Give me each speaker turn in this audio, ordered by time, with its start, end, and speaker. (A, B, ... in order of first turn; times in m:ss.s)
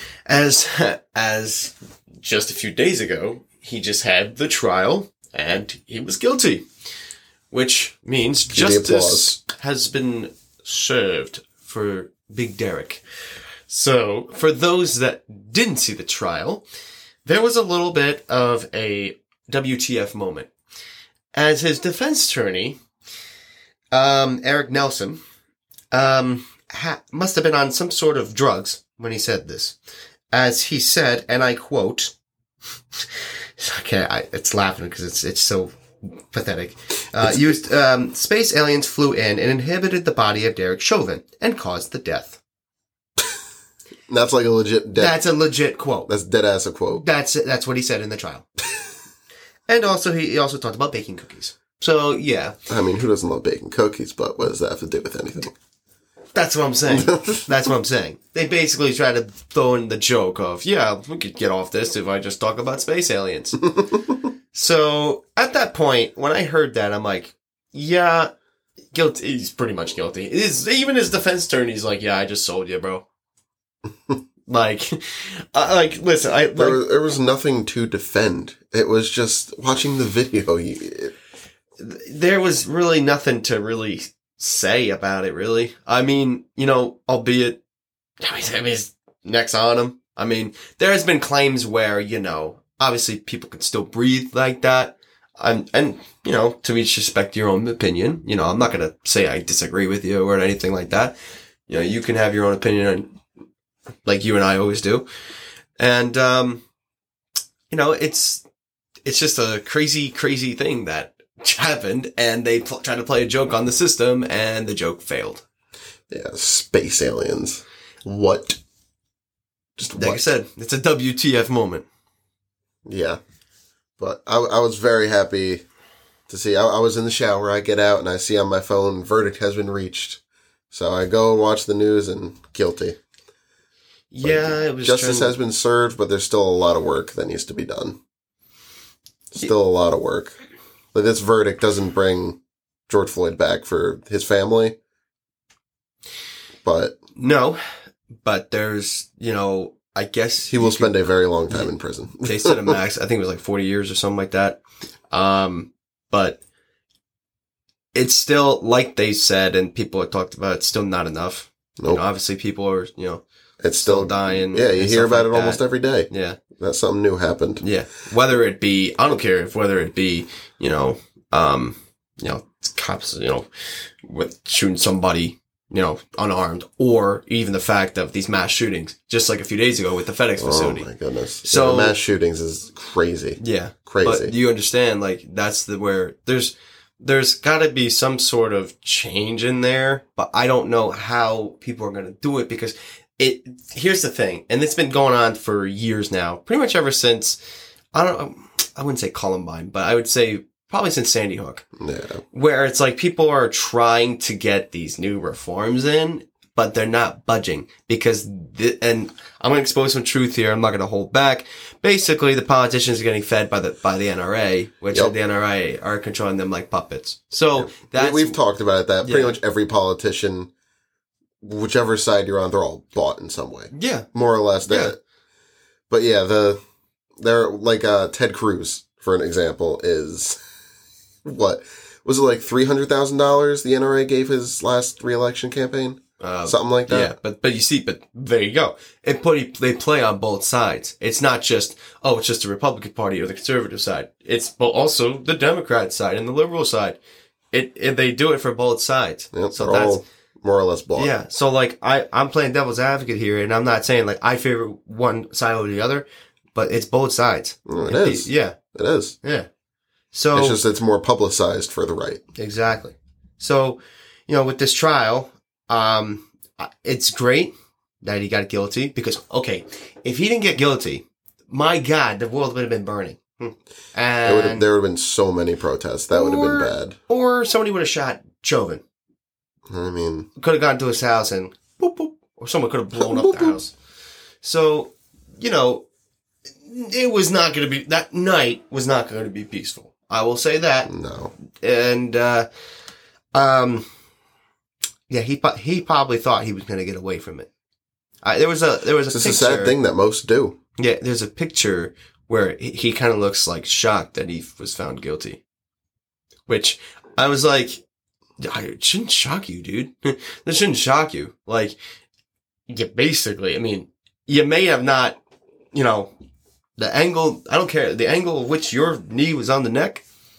0:00.3-0:06.6 A
0:07.5-0:13.0 A
0:08.5-0:09.3 B
0:13.7-0:16.6 A
0:17.2-0:20.5 A
0:21.3-0:22.8 A
0:23.9-0:25.2 A
0:25.9-0:29.8 A
0:30.3-0:32.1 A
0:33.0-0:35.7 A
0:36.3-0:42.4 A
0:37.2-0:37.6 B
0:44.1-0:45.2 B
0:44.9-0:46.1 A
0:46.1-0:47.0 B
0:47.0-0:48.4 A
0:49.7-0:52.5 A
0:52.7-0:55.5 B
0:56.3-1:03.6 A
0:56.9-0:57.5 B
1:04.5-1:08.3 A
1:08.9-1:13.0 A
1:14.5-1:16.8 A
1:16.6-1:21.1 B
1:21.8-1:27.6 A
1:28.2-1:41.2 A
1:41.7-1:43.1 A
1:44.0-1:45.0 A
1:45.8-1:46.6 A
1:47.7-1:48.4 A
1:49.0-1:55.4 A
1:56.1-1:58.6 B
1:59.8-2:00.2 B
1:59.9-2:01.8 A
2:02.8-2:03.2 B
2:04.0-2:05.6 B
2:06.3-2:10.2 B
2:10.7-2:13.0 B
2:14.1-2:15.3 A
2:14.2-2:18.0 B
2:19.3-2:20.3 B
2:20.9-2:24.8 B
2:26.6-2:27.0 B
2:27.2-2:27.6 A
2:28.2-2:31.0 A
2:30.5-2:32.8 B
2:31.5-2:34.6 A
2:35.1-2:36.4 A
2:37.9-2:43.2 A
2:43.6-2:47.6 B
2:43.8-2:46.4 A
2:47.6-2:53.5 A
2:54.0-3:00.9 A
3:00.4-3:04.3 B
3:01.4-3:02.0 A
3:03.4-3:17.4 A
3:17.9-3:21.6 A
3:21.8-3:22.2 B
3:22.3-3:38.4 A
3:37.6-3:40.5 B
3:39.0-3:39.4 A
3:41.4-3:45.0 B
3:43.7-3:44.1 A
3:44.6-3:45.0 A
3:45.9-3:46.6 B
3:47.2-3:50.4 B
3:51.2-3:57.1 B
3:56.2-4:07.0 A
4:07.5-4:10.0 A
4:09.3-4:11.1 B
4:11.0-4:18.6 A
4:17.6-4:19.2 B
4:20.1-4:20.6 A
4:20.3-4:22.2 B
4:22.4-4:34.6 A
4:34.2-4:37.0 B
4:36.1-4:38.8 A
4:39.7-4:40.3 B
4:40.4-4:43.7 A
4:43.0-4:43.6 B
4:44.4-4:45.8 A
4:46.6-4:50.9 A
4:50.9-4:51.3 B
4:51.5-4:52.5 A
4:53.3-4:53.9 A
4:55.1-4:57.5 A
4:58.2-4:59.7 A
4:59.1-5:00.6 B
5:00.8-5:05.4 A
5:06.5-5:07.8 A
5:08.4-5:11.8 A
5:12.7-5:15.2 A
5:15.7-5:16.1 A
5:16.8-5:20.0 A